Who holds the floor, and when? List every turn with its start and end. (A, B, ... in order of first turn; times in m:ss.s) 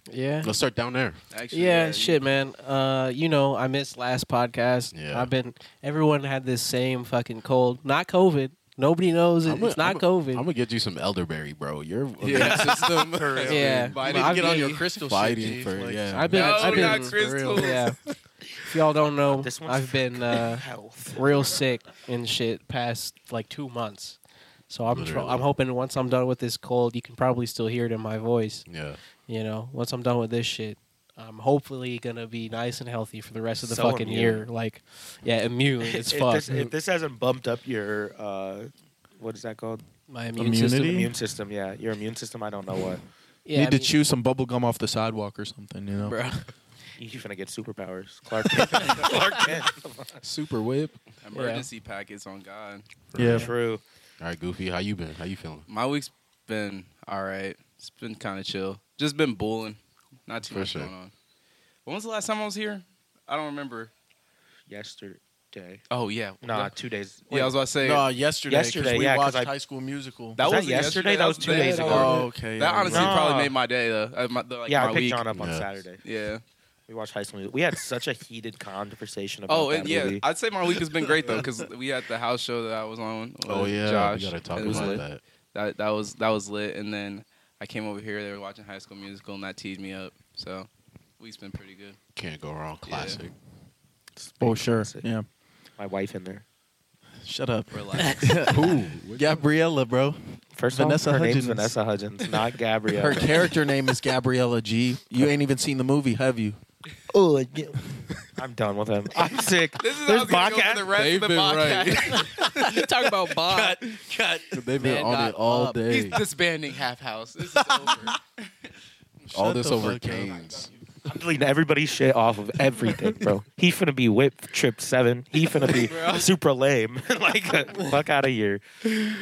0:00.1-0:00.5 A
0:00.4-0:01.2 B
0:01.3-0:02.2 C
0:01.5-0:10.4 A
0:04.9-0:05.3 B
0:09.5-0:13.1 B
0:12.2-0:14.9 C
0:13.1-0:13.7 D
0:13.5-0:14.7 A
0:13.6-0:17.8 E
0:15.0-0:16.6 B
0:16.1-0:18.0 A
0:16.3-0:17.8 C
0:18.6-0:24.2 A
0:19.4-0:21.4 D
0:24.7-0:28.7 A
0:24.9-0:25.4 B
0:28.7-0:29.0 B
0:29.3-0:36.7 A
0:33.6-0:34.5 D
0:35.9-0:39.8 D
0:40.1-0:41.1 A
0:40.4-0:41.1 E
0:40.9-0:43.0 D
0:43.4-0:43.9 A
0:43.5-0:46.2 E
0:46.0-0:46.5 A
0:47.0-0:50.2 D
0:50.2-0:51.0 B
0:51.2-0:52.9 C
0:51.3-0:51.7 A
0:53.1-0:53.5 B
0:53.2-0:53.5 E
0:53.3-0:53.8 D
0:54.2-0:55.7 B
0:55.7-1:01.1 C
1:00.5-1:00.9 B
1:01.8-1:03.9 C
1:04.7-1:05.8 D
1:05.9-1:06.7 C
1:06.4-1:07.6 D
1:07.3-1:08.1 C
1:07.8-1:10.4 E
1:08.5-1:09.5 D
1:10.4-1:15.2 C
1:10.4-1:12.3 D
1:11.5-1:13.2 E
1:12.9-1:13.5 D
1:14.7-1:16.0 D
1:15.4-1:15.7 B
1:16.0-1:16.4 C
1:16.9-1:20.2 D
1:19.5-1:30.7 C
1:23.5-1:25.2 B
1:24.6-1:25.0 D
1:31.2-1:32.0 C
1:32.2-1:33.4 B
1:32.9-1:33.2 C
1:34.2-1:35.1 D
1:34.4-1:35.3 E
1:35.8-1:36.4 D
1:37.2-1:41.8 E
1:37.7-1:38.5 C
1:38.5-1:39.4 B
1:40.6-1:43.5 D
1:42.9-1:46.6 E
1:47.1-1:47.8 D
1:48.4-1:51.0 D
1:49.8-1:52.6 C
1:50.9-1:52.2 B
1:52.1-1:54.0 A
1:53.5-1:54.5 D
1:54.5-1:56.2 B
1:54.7-1:55.8 A
1:55.9-1:58.5 C
1:59.3-2:00.3 E
1:59.3-2:00.7 B
2:01.0-2:08.6 D
2:05.6-2:06.3 C